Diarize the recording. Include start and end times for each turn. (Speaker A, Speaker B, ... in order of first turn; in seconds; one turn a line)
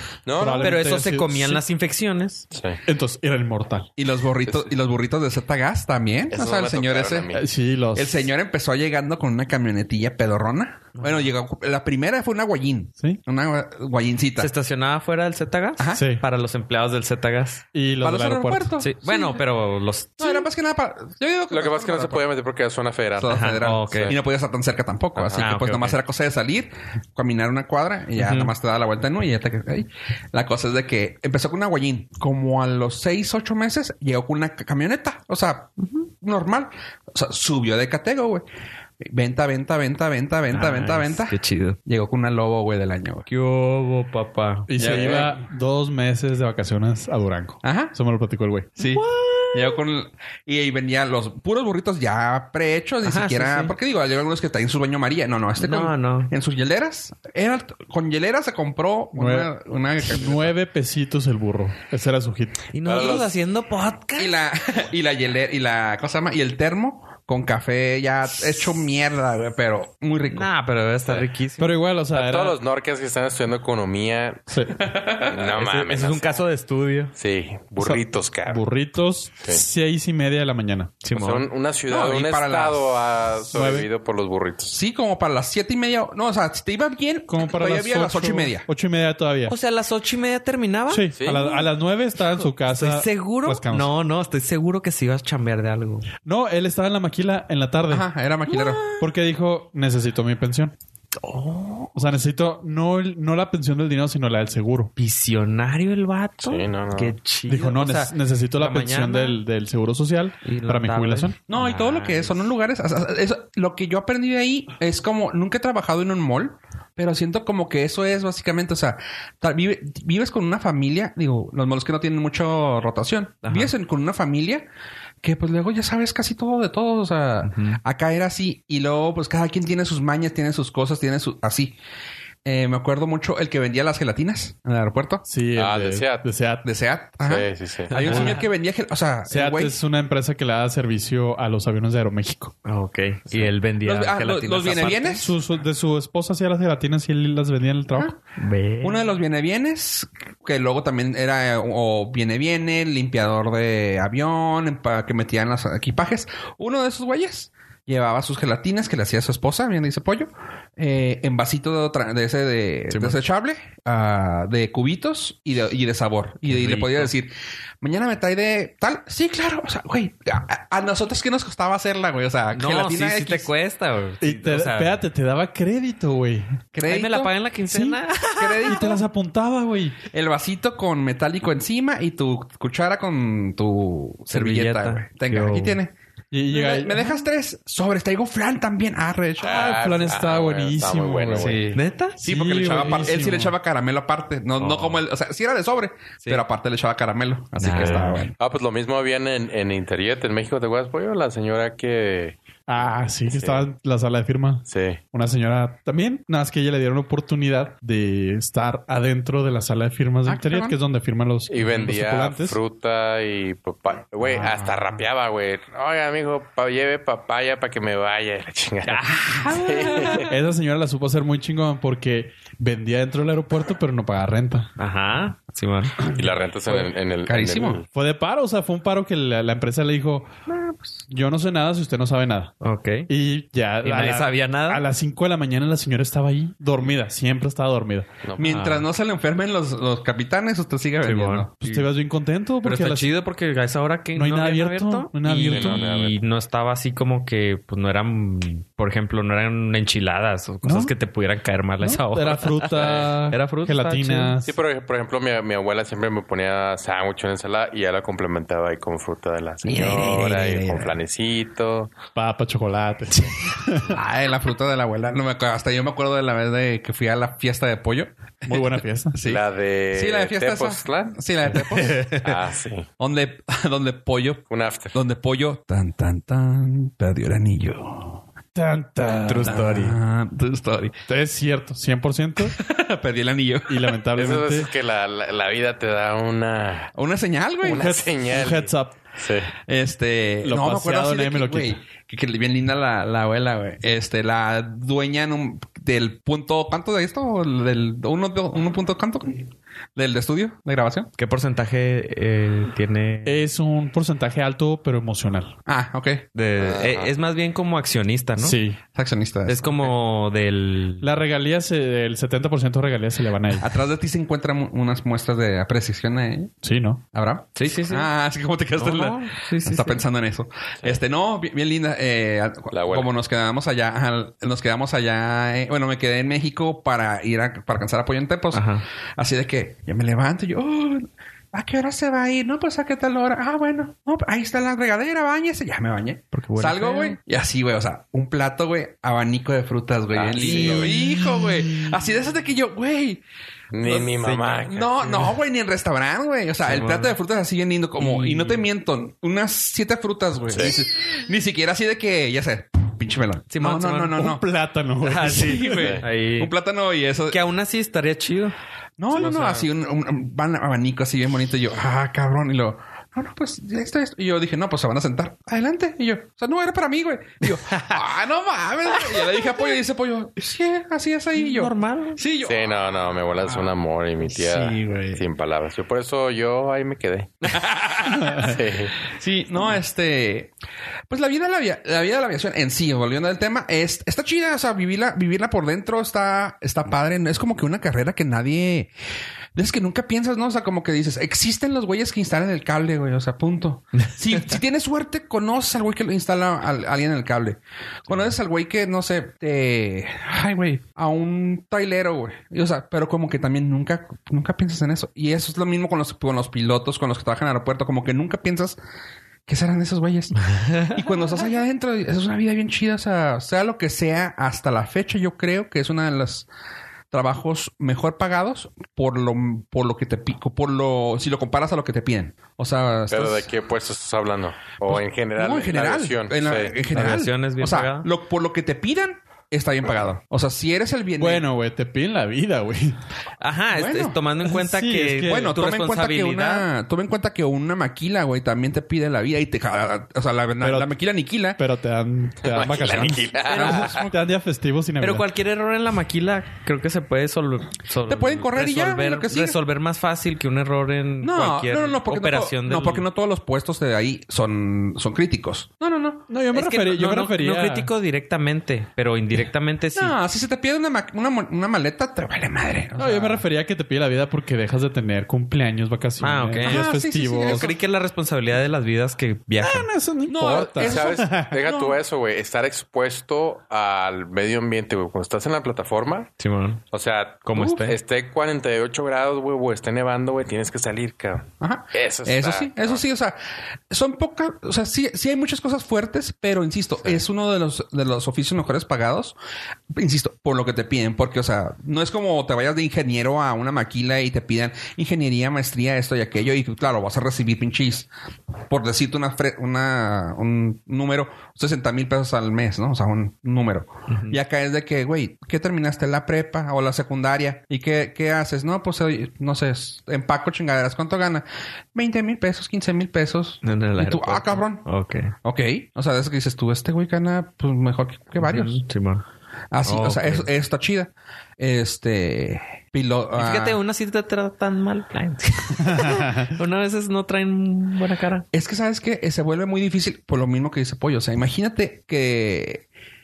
Speaker A: 0.2-0.8
Speaker B: 0.3-1.6
Speaker C: 0.6-2.4
Speaker A: 2.5-2.8
Speaker B: 2.9-3.9
Speaker D: 4.0-7.3
Speaker A: 4.5-4.7
Speaker A: 6.3-7.5
Speaker B: 7.3-8.2
Speaker D: 7.9-14.5
Speaker C: 11.0-11.2
Speaker C: 14.4-17.6
Speaker D: 15.8-16.1
Speaker B: 15.9-16.2
Speaker B: 17.7-18.7
Speaker D: 18.0-19.4
Speaker C: 18.8-20.5
Speaker D: 20.2-22.2
Speaker A: 21.5-24.2
Speaker D: 23.2-38.4
Speaker C: 23.3-24.2
Speaker A: 25.2-25.4
Speaker C: 25.3-26.0
Speaker C: 28.2-28.5
Speaker D: 39.0-43.3
Speaker C: 40.5-41.8
Speaker C: 43.3-45.2
Speaker B: 44.7-48.8
Speaker A: 44.8-45.3
Speaker D: 44.9-45.2
Speaker D: 47.6-48.0
Speaker D: 48.8-60.5
Speaker C: 48.9-49.8
Speaker C: 53.0-53.7
Speaker C: 55.6-56.3
Speaker B: 59.1-59.5
Speaker B: 60.0-62.6
Speaker C: 62.7-64.3
Speaker A: 62.8-63.3
Speaker D: 64.2-70.5
Speaker C: 70.3-71.7
Speaker B: 71.6-72.6
Speaker A: 72.1-74.5
Speaker B: 74.5-74.8
Speaker D: 74.8-75.4
Speaker A: 75.2-76.4
Speaker C: 75.6-77.1
Speaker A: 77.2-78.6
Speaker B: 77.8-81.0
Speaker C: 81.0-81.4
Speaker A: 81.1-84.8
Speaker D: 81.9-82.9
Speaker B: 83.5-83.9
Speaker D: 84.7-88.7
Speaker B: 87.3-89.5
Speaker C: 89.5-91.6
Speaker B: 90.9-93.9
Speaker A: 91.1-91.6
Speaker C: 92.3-96.1
Speaker B: 96.2-98.1
Speaker D: 97.9-98.8
Speaker C: 98.5-99.0
Speaker B: 99.0-100.7
Speaker C: 101.2-102.1
Speaker B: 101.9-104.9
Speaker C: 105.0-109.4
Speaker A: 106.4-107.1
Speaker B: 107.5-111.3
Speaker C: 110.4-112.5
Speaker D: 111.5-124.7
Speaker C: 123.4-123.7
Speaker D: 125.2-131.8
Speaker C: 127.4-127.8
Speaker D: 132.4-135.2
Speaker B: 135.2-136.6
Speaker A: 135.5-136.3
Speaker D: 136.6-139.8
Speaker A: 137.2-138.3
Speaker C: 137.9-138.4
Speaker B: 139.3-142.5
Speaker C: 142.6-145.2
Speaker D: 143.8-145.4
Speaker B: 144.8-148.2
Speaker C: 148.4-149.0
Speaker D: 148.8-173.5
Speaker C: 166.5-167.1
Speaker C: 172.5-175.0
Speaker B: 174.2-176.6
Speaker D: 176.7-177.3
Speaker C: 176.8-179.0
Speaker B: 177.7-178.0
Speaker D: 178.4-179.0
Speaker B: 178.6-180.0
Speaker D: 180.1-185.9
Speaker C: 184.3-185.8
Speaker B: 186.3-187.1
Speaker D: 186.5-189.7
Speaker A: 189.4-191.6
Speaker B: 189.4-193.5
Speaker C: 191.4-192.2
Speaker D: 192.2-198.3
Speaker A: 194.6-194.9
Speaker C: 197.6-198.2
Speaker A: 197.7-202.3
Speaker B: 202.7-212.6
Speaker A: 203.3-203.7
Speaker A: 204.7-205.0
Speaker D: 210.2-210.8
Speaker A: 211.5-220.3
Speaker B: 214.3-214.6
Speaker C: 218.8-220.2
Speaker B: 220.1-224.7
Speaker C: 224.8-226.0
Speaker A: 226.0-227.8
Speaker D: 227.2-227.8
Speaker B: 227.9-230.3
Speaker C: 230.5-231.0
Speaker B: 231.1-232.5
Speaker C: 232.6-233.1
Speaker B: 233.1-238.1
Speaker C: 233.8-234.8
Speaker A: 238.2-238.5
Speaker D: 238.3-241.5
Speaker C: 238.4-238.8
Speaker C: 241.0-241.9
Speaker B: 241.6-243.1
Speaker C: 242.6-254.3
Speaker B: 244.1-246.1
Speaker A: 245.5-246.2
Speaker B: 250.6-250.9
Speaker B: 251.8-254.5
Speaker A: 252.8-253.2
Speaker A: 254.4-261.9
Speaker D: 259.6-260.9
Speaker B: 262.1-264.0
Speaker D: 263.2-272.3
Speaker B: 268.5-269.2
Speaker A: 269.2-271.2
Speaker C: 271.6-272.3
Speaker A: 272.0-272.9
Speaker D: 273.0-278.2
Speaker A: 274.5-274.9
Speaker B: 278.5-279.9
Speaker C: 279.1-279.9
Speaker D: 279.4-281.0
Speaker B: 281.1-282.6
Speaker D: 282.4-284.0
Speaker B: 283.7-284.7
Speaker A: 284.1-286.9
Speaker D: 286.9-287.9
Speaker B: 287.6-288.9
Speaker A: 287.6-289.5
Speaker D: 289.6-301.1
Speaker B: 290.4-291.8
Speaker C: 301.2-303.4
Speaker B: 303.2-305.5
Speaker D: 305.6-306.2
Speaker C: 306.3-308.6
Speaker A: 306.6-307.1
Speaker B: 308.4-308.8
Speaker D: 308.9-309.9
Speaker C: 309.4-311.1
Speaker B: 311.0-313.7
Speaker D: 313.6-316.5
Speaker B: 316.6-317.0
Speaker D: 317.1-328.6
Speaker C: 317.6-318.1
Speaker C: 318.7-320.0
Speaker A: 322.7-323.1
Speaker C: 328.5-328.8
Speaker D: 329.2-343.2
Speaker C: 336.3-337.2
Speaker A: 340.1-341.0
Speaker C: 340.4-341.5
Speaker A: 343.7-344.9
Speaker C: 343.9-345.2
Speaker D: 344.6-354.4
Speaker C: 346.6-347.2
Speaker C: 348.0-348.6
Speaker A: 350.5-350.8
Speaker C: 353.5-354.2
Speaker B: 354.1-356.0
Speaker C: 355.0-356.5
Speaker D: 355.4-357.4
Speaker A: 355.8-356.0
Speaker C: 357.3-358.5
Speaker D: 359.0-372.8
Speaker C: 359.1-359.7
Speaker C: 367.7-368.0
Speaker C: 371.4-372.2
Speaker A: 372.4-377.5
Speaker C: 374.4-375.2
Speaker D: 377.5-380.5
Speaker A: 378.4-379.0
Speaker D: 381.1-388.9
Speaker D: 389.5-408.8
Speaker D: 409.5-416.5
Speaker C: 410.4-410.9
Speaker D: 417.1-423.5
Speaker A: 423.1-426.7
Speaker D: 424.9-431.5
Speaker C: 426.9-428.1
Speaker B: 431.2-433.0
Speaker C: 433.4-436.7
Speaker D: 433.7-434.2
Speaker B: 434.4-435.5
Speaker D: 435.2-441.6
Speaker B: 440.6-440.9
Speaker B: 441.6-445.2
Speaker A: 442.4-444.1
Speaker D: 443.5-444.2
Speaker C: 445.0-453.1
Speaker D: 448.1-449.6
Speaker D: 451.2-456.3
Speaker B: 456.3-457.9
Speaker C: 456.5-460.1
Speaker D: 459.9-463.4
Speaker B: 463.0-467.7
Speaker C: 466.2-466.9
Speaker D: 466.6-467.7
Speaker C: 467.4-469.9
Speaker B: 469.6-471.5
Speaker D: 470.3-472.0
Speaker A: 470.7-476.3
Speaker C: 476.4-476.8
Speaker A: 476.9-483.0
Speaker C: 477.4-477.9
Speaker D: 481.6-483.4
Speaker D: 483.9-489.4
Speaker D: 489.9-498.1
Speaker D: 498.7-514.9
Speaker C: 504.1-504.4
Speaker C: 513.6-515.3
Speaker D: 515.4-518.8
Speaker C: 518.4-519.2
Speaker D: 519.7-523.8
Speaker C: 519.8-520.5
Speaker C: 523.3-528.5
Speaker B: 525.8-526.5
Speaker D: 528.5-532.8